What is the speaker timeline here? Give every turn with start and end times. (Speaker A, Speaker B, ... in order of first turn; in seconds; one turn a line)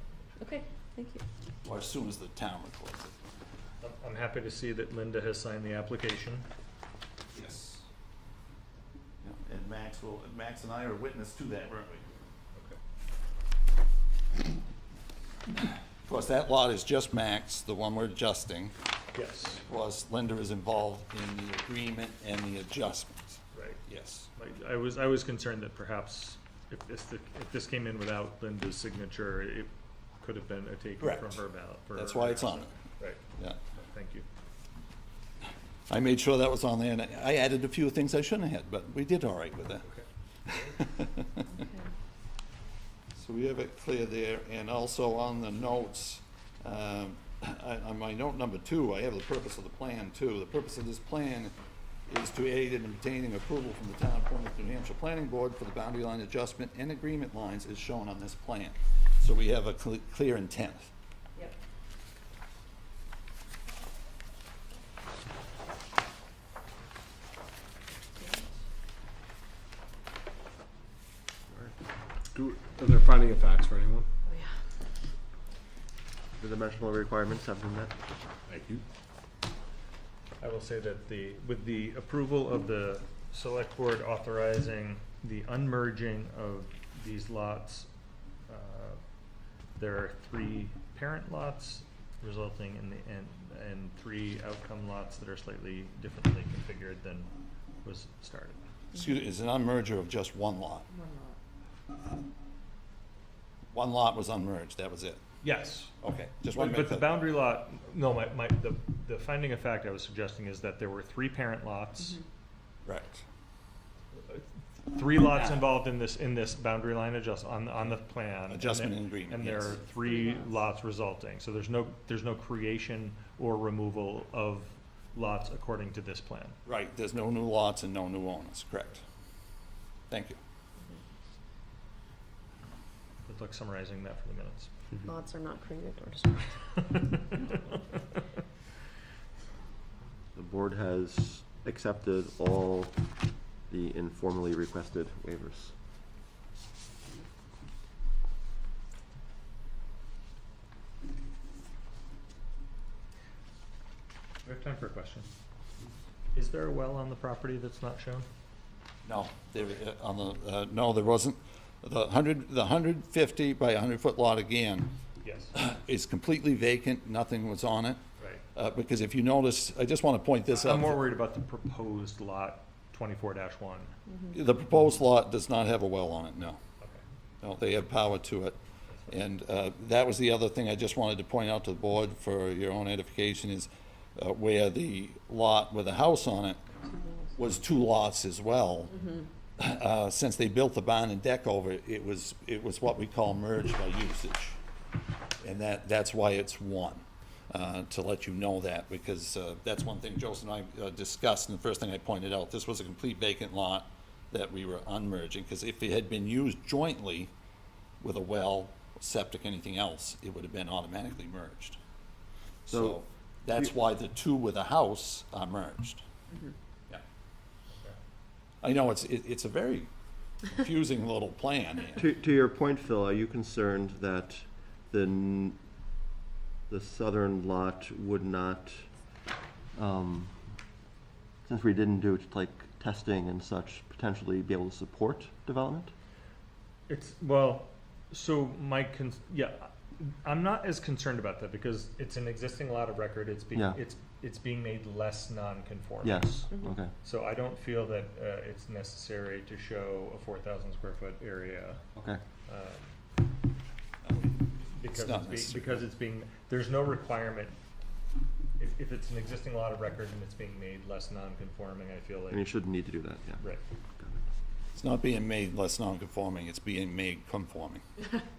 Speaker A: 0.4-1.2
Speaker B: 1.6-3.1
Speaker C: 3.8-6.5
Speaker B: 7.3-7.8
Speaker B: 9.2-12.1
Speaker B: 16.0-18.8
Speaker C: 19.1-19.6
Speaker B: 19.4-24.3
Speaker C: 23.5-23.8
Speaker C: 24.4-33.2
Speaker B: 31.0-31.4
Speaker B: 31.9-32.7
Speaker C: 33.7-34.2
Speaker B: 35.9-39.9
Speaker C: 39.9-40.8
Speaker B: 40.5-41.4
Speaker A: 41.5-41.8
Speaker B: 43.1-51.5
Speaker B: 52.1-60.9
Speaker A: 68.2-68.5
Speaker D: 72.3-74.1
Speaker E: 76.4-77.9
Speaker D: 78.5-78.8
Speaker C: 80.4-87.9
Speaker C: 88.5-89.0
Speaker C: 89.8-97.3
Speaker C: 97.8-98.6
Speaker B: 98.9-100.9
Speaker A: 100.9-101.3
Speaker B: 103.7-105.2
Speaker C: 105.4-105.9
Speaker B: 106.0-107.1
Speaker C: 106.5-112.2
Speaker B: 112.8-113.2
Speaker C: 114.1-126.6
Speaker B: 118.5-119.8
Speaker B: 126.7-129.0
Speaker B: 130.1-130.4
Speaker C: 133.2-134.7
Speaker A: 135.0-136.5
Speaker C: 136.9-137.5
Speaker E: 140.3-142.9
Speaker E: 143.7-145.7
Speaker C: 154.4-155.3
Speaker C: 156.3-158.2
Speaker B: 159.0-164.9
Speaker C: 165.2-165.5
Speaker B: 165.5-168.0
Speaker C: 168.2-168.4
Speaker B: 168.5-171.1
Speaker C: 170.5-173.9
Speaker B: 174.3-176.6
Speaker B: 177.4-178.6
Speaker C: 178.9-179.2
Speaker B: 179.1-186.6
Speaker A: 186.9-187.2
Speaker B: 187.3-189.0
Speaker B: 189.6-194.6
Speaker B: 195.4-207.3
Speaker B: 208.0-211.8
Speaker B: 212.7-216.0
Speaker E: 212.7-213.0
Speaker B: 218.6-219.9
Speaker B: 220.4-222.0
Speaker E: 221.9-225.6
Speaker E: 226.7-228.9
Speaker E: 229.7-230.3
Speaker E: 231.4-235.9
Speaker C: 236.9-251.8
Speaker E: 246.0-246.9
Speaker E: 251.9-252.2
Speaker C: 252.5-252.9
Speaker B: 254.0-254.3
Speaker C: 254.2-257.6
Speaker B: 254.9-255.8
Speaker C: 258.6-262.4
Speaker E: 262.3-263.4
Speaker E: 264.0-264.2
Speaker B: 264.7-267.8